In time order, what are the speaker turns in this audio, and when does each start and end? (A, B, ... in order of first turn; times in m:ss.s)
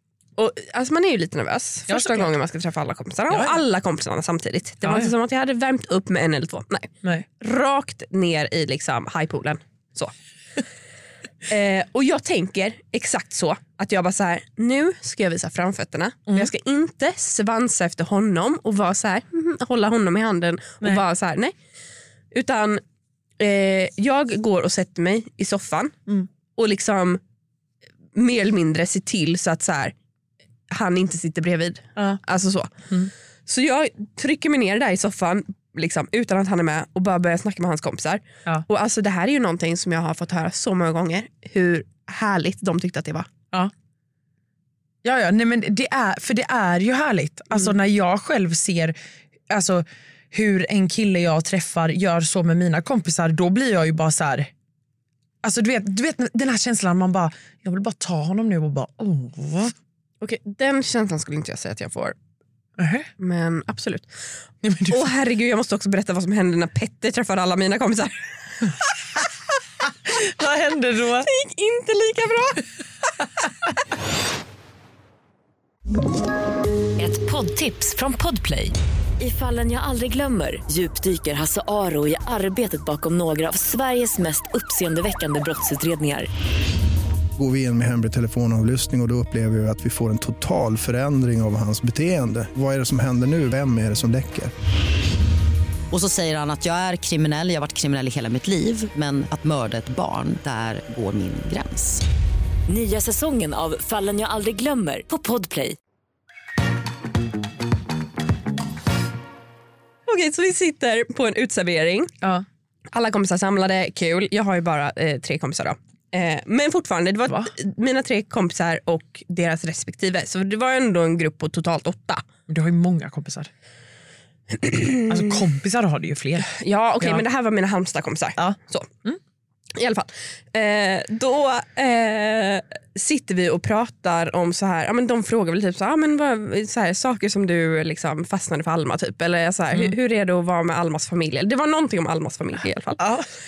0:00.4-0:10.1 A
0:01.9-0:02.3 B
0:03.3-0:03.6 B
0:04.8-0:05.1 B
0:11.5-0:21.6 A
0:22.3-0:22.8 A
0:23.4-0:25.9 A
0:26.6-0:27.2 A
0:28.2-0:29.9 A
0:30.7-0:32.7 A
0:33.5-0:43.3 A
0:45.0-0:49.0 B
0:49.5-0:54.5 B
0:55.4-0:59.7 B
1:00.2-1:02.2 A
1:02.8-1:03.1 B
1:03.2-1:04.1 A
1:04.6-1:05.1 B
1:04.9-1:08.7 A
1:10.2-1:11.3 B
1:11.2-1:12.6 A
1:17.0-1:26.3 C
1:27.4-1:34.5 D
1:35.9-1:42.0 E
1:42.7-1:45.8 C
1:50.1-1:52.1 A
1:52.9-2:02.3 A
2:02.5-2:03.5 B
2:04.5-2:05.3 A
2:05.1-2:06.5 B
2:06.4-2:08.9 A
2:08.4-2:09.2 B
2:09.8-2:23.1 A
2:23.0-2:23.3 B